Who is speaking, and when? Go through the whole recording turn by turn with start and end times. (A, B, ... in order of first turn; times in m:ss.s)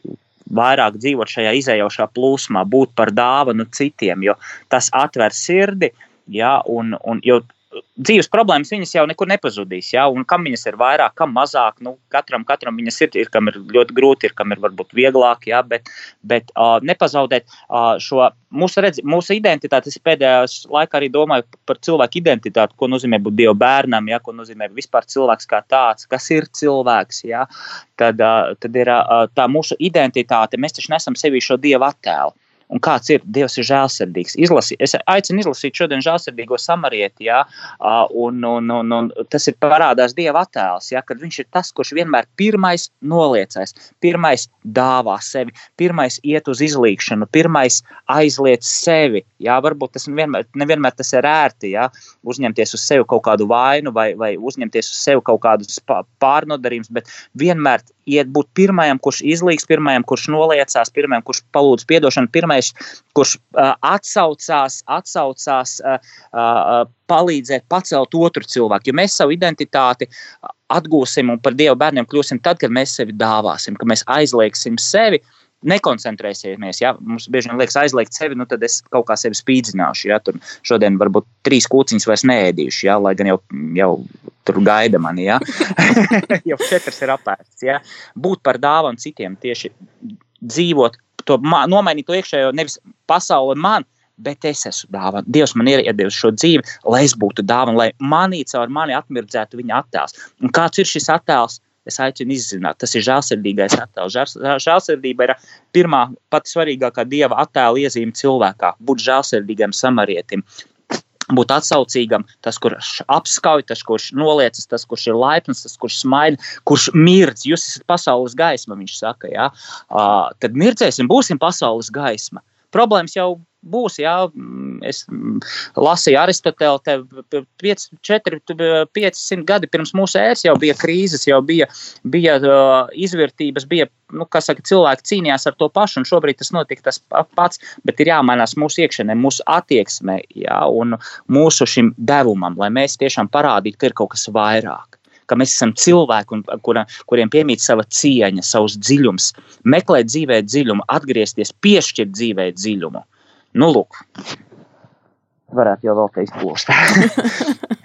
0:00.5-0:27.4 A
0:28.0-1:10.1 A
1:10.7-1:29.7 A
1:30.4-1:50.4 A
1:51.3-2:34.0 A
2:35.5-2:37.5 A